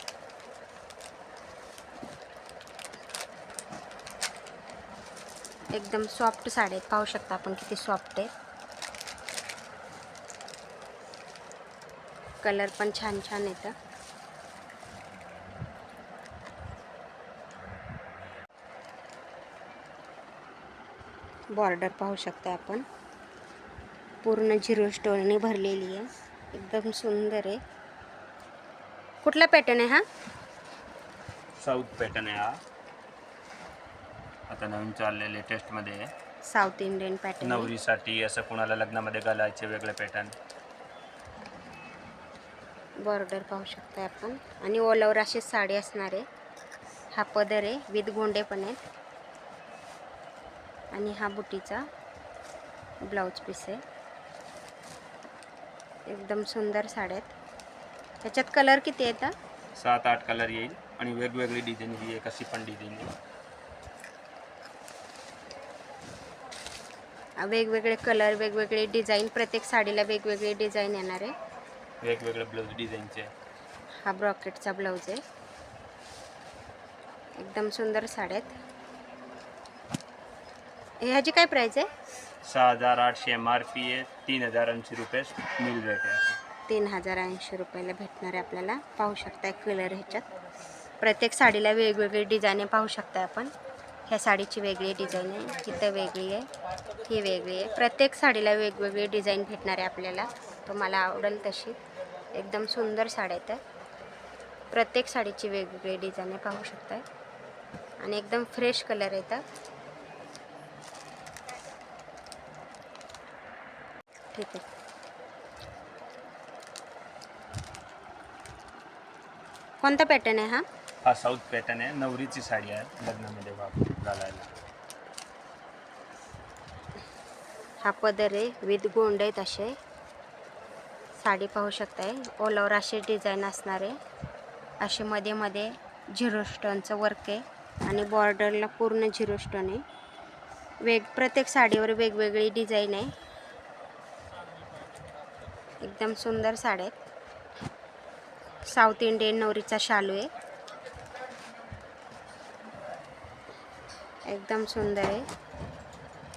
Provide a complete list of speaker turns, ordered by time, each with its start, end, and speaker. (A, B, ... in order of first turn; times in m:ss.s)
0:05.7-0:08.3 A
0:12.4-0:13.7 A
0:21.6-0:22.8 A
0:24.2-0:27.6 A
0:29.2-0:30.0 A
0:31.6-0:32.6 B
0:34.5-0:36.1 B
0:36.5-0:37.7 A
0:37.4-0:40.3 B
0:43.0-0:46.2 A
0:47.1-0:48.8 A
0:50.9-0:51.8 A
0:53.1-0:53.8 A
0:56.1-0:57.3 A
0:58.2-0:59.3 A
0:59.8-1:03.1 B
1:07.4-1:11.3 A
1:12.0-1:13.3 B
1:14.0-1:15.2 A
1:17.4-1:18.5 A
1:21.0-1:21.9 A
1:22.4-1:26.4 B
1:26.7-1:30.3 A
1:31.0-1:33.5 A
1:34.1-1:36.5 A
1:37.0-1:41.8 A
1:42.3-1:43.6 A
1:44.7-1:47.0 A
1:48.0-1:49.4 A
1:54.3-1:54.6 A
1:59.8-2:00.6 A
2:01.0-2:04.5 B
2:07.8-2:09.7 A
2:11.2-2:14.0 A
2:14.8-2:19.8 A
2:20.8-2:23.1 A
2:25.8-2:27.0 A
2:28.7-2:30.3 A
2:34.3-2:35.2 A